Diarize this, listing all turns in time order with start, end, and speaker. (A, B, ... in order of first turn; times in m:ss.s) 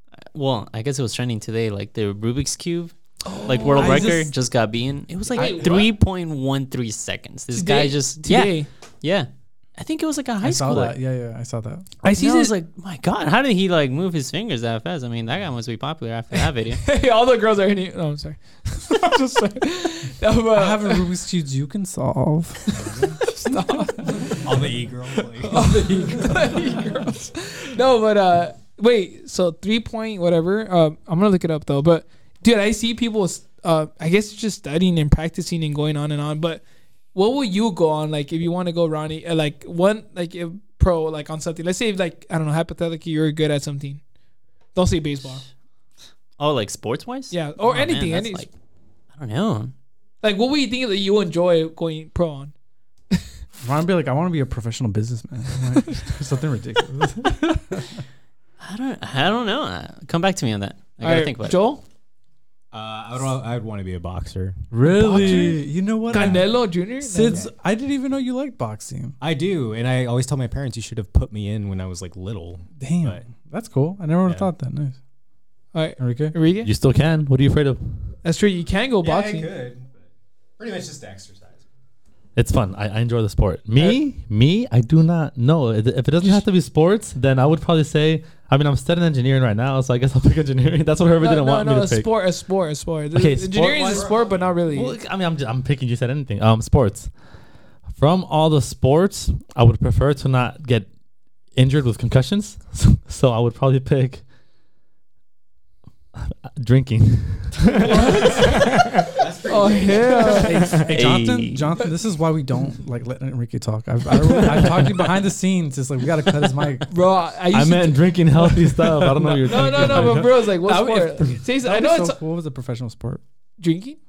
0:00.3-0:11.0 A
0:03.3-0:04.2 B
0:03.6-0:04.3 C
0:05.3-0:05.9 B
0:05.3-0:05.8 C
0:07.5-0:08.7 B
0:10.4-0:11.8 C
0:12.0-0:12.6 B
0:12.1-0:16.8 A
0:16.8-0:21.1 B
0:20.5-0:23.2 C
0:23.3-0:24.7 B
0:24.4-0:26.0 D
0:25.4-0:44.0 B
0:44.7-0:45.4 B
0:46.4-0:48.5 A
0:47.3-0:48.5 B
0:49.1-0:49.7 A
0:50.2-0:52.5 B
0:53.5-0:58.0 C
0:58.6-1:01.6 A
1:01.0-1:01.8 B
1:02.7-1:05.5 D
1:04.7-1:09.2 C
1:04.8-1:07.4 B
1:06.1-1:06.5 D
1:07.2-1:07.5 D
1:09.2-1:13.3 D
1:12.8-1:15.0 C
1:15.7-1:16.7 B
1:16.0-1:16.4 C
1:16.6-1:18.2 E
1:18.2-1:19.5 B
1:19.0-1:20.0 D
1:20.6-1:21.6 D
1:22.4-1:32.4 E
1:31.2-1:35.0 B
1:33.1-1:34.0 E
1:33.5-1:34.1 C
1:33.7-1:34.5 D
1:34.6-1:37.2 E
1:37.8-1:40.9 E
1:41.5-1:44.3 E
1:46.2-1:48.0 E
1:47.9-1:48.7 B
1:49.2-1:51.0 D
1:49.5-1:51.1 B
1:50.7-1:56.9 C
1:50.9-1:51.6 A
1:56.9-2:02.2 B
1:57.5-2:00.4 E
1:59.4-2:03.2 C
2:03.6-2:04.0 B